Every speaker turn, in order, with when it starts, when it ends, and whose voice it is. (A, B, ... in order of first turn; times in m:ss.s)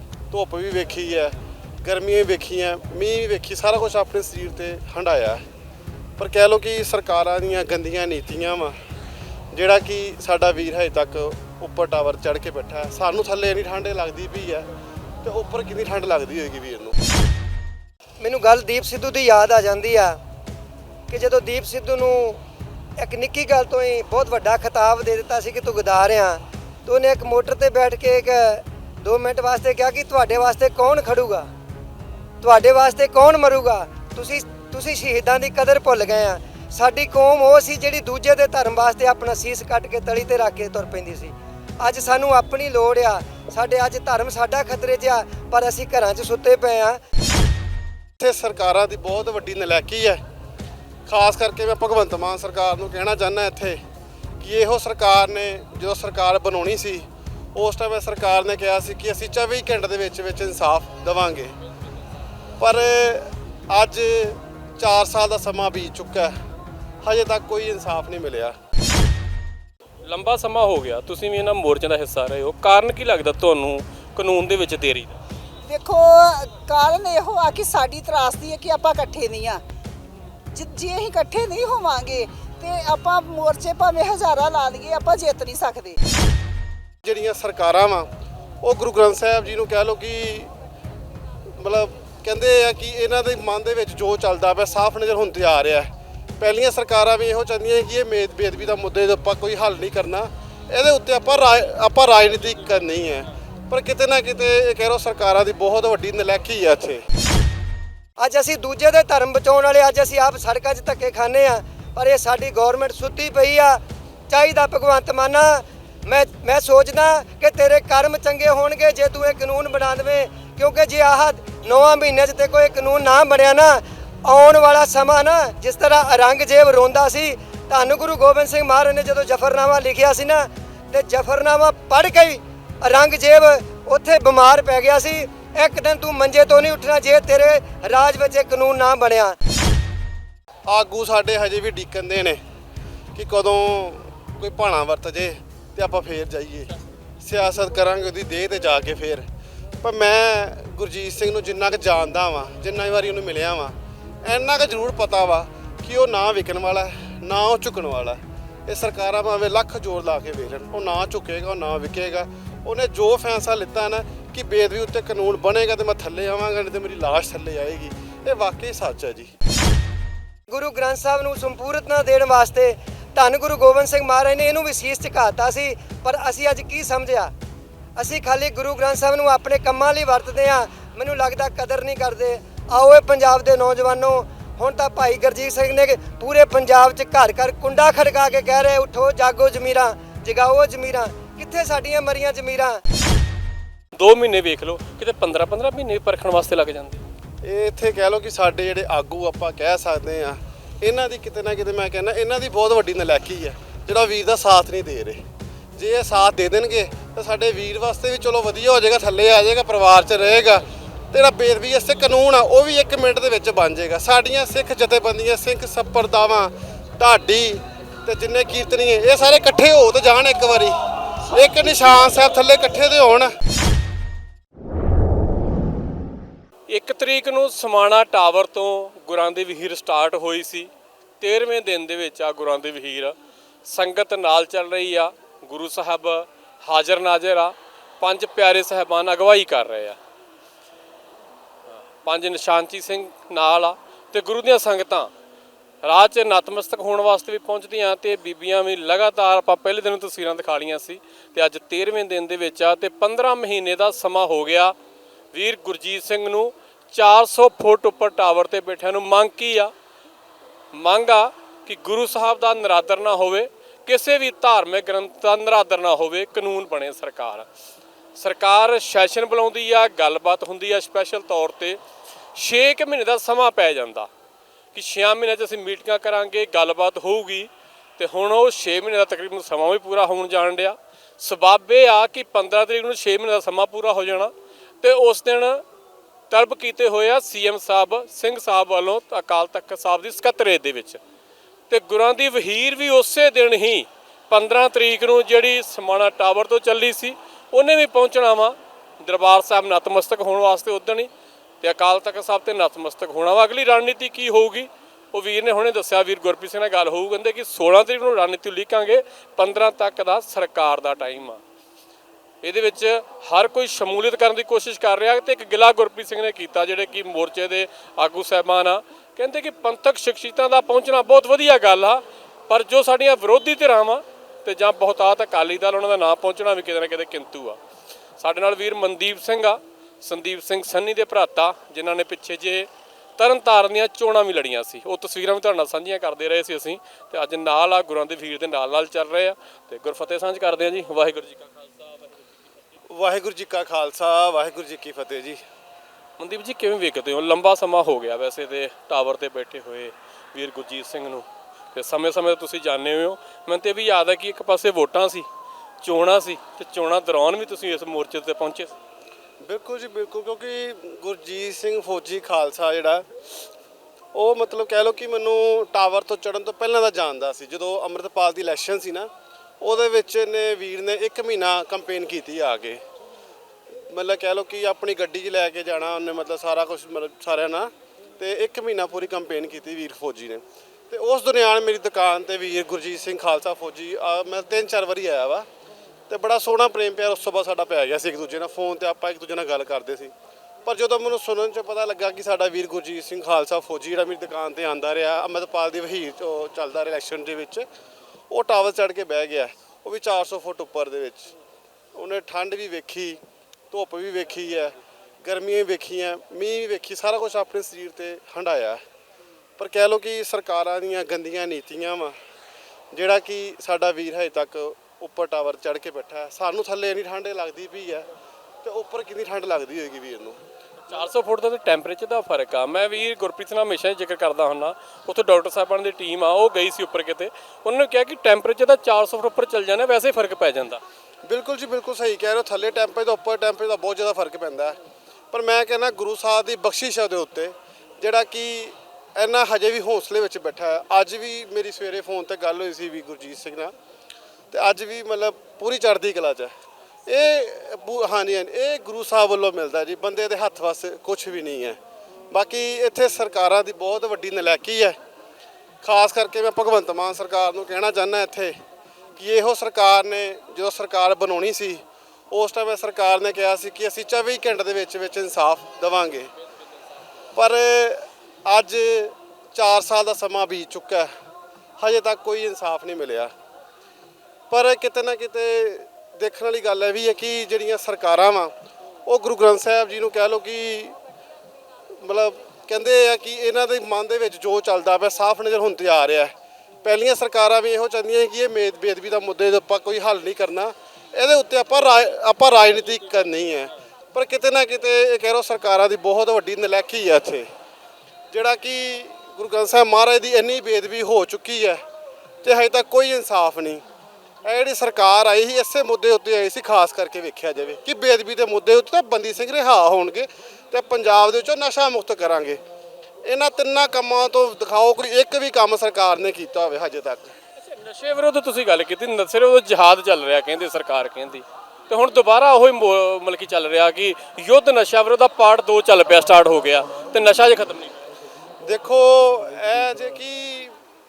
0:00.3-0:05.4 A
0:06.2-0:08.8 A
0:09.5-0:14.7 A
0:15.2-0:17.0 A
0:18.2-0:20.2 B
0:21.1-0:22.4 B
0:23.0-0:31.5 B
0:32.4-0:47.0 B
0:48.2-0:50.2 A
0:51.0-0:53.8 A
0:54.4-1:01.5 A
1:02.6-1:06.3 A
1:07.0-1:08.6 A
1:10.0-1:15.1 C
1:15.6-1:19.6 D
1:20.5-1:26.0 D
1:27.0-1:28.1 A
1:28.6-1:30.5 A
1:31.6-1:47.0 A
1:48.2-2:19.4 B
2:20.7-2:22.4 A
2:23.1-2:26.7 A
2:27.2-2:29.2 A
2:29.8-2:49.3 A
2:50.5-2:57.3 B
2:58.0-3:12.8 B
3:13.9-3:17.0 C
3:17.4-3:25.2 A
3:25.8-3:43.3 A
3:46.7-3:50.7 C
3:51.2-4:00.0 C
4:02.0-4:05.1 C
4:05.8-4:14.7 C
4:15.3-4:19.7 C
4:20.7-4:27.5 C
4:28.2-4:31.8 C
4:32.3-4:34.1 C
4:34.7-4:45.6 C
4:46.3-4:51.0 C
4:51.7-5:01.1 C
5:01.6-5:11.4 C
5:12.4-5:27.6 C
5:28.2-5:42.2 C
5:42.9-5:45.4 A
5:46.2-5:55.3 C
5:55.8-5:58.7 C
5:59.4-6:03.1 A
6:04.1-6:09.1 A
6:09.6-6:12.8 A
6:13.9-6:25.5 A
6:26.1-6:30.1 A
6:30.6-6:37.7 A
6:38.3-6:41.3 A
6:41.9-6:43.2 A
6:43.7-6:48.8 A
6:49.6-6:52.2 A
6:52.9-6:58.0 A
6:58.6-7:00.4 A
7:00.9-7:10.8 C
7:11.2-7:14.8 A
7:15.3-7:23.7 A
7:24.5-7:26.5 A
7:27.1-7:31.8 A
7:32.3-7:35.0 A
7:35.8-7:38.6 A
7:39.2-7:46.3 A
7:47.4-7:51.1 A
7:51.8-7:53.3 A
7:54.5-7:58.5 A
7:59.0-8:01.0 A
8:01.9-8:17.5 A
8:18.3-8:21.8 A
8:22.4-8:23.8 A
8:24.4-8:32.6 A
8:33.2-8:37.3 A
8:37.6-8:48.0 C
8:48.6-8:50.7 A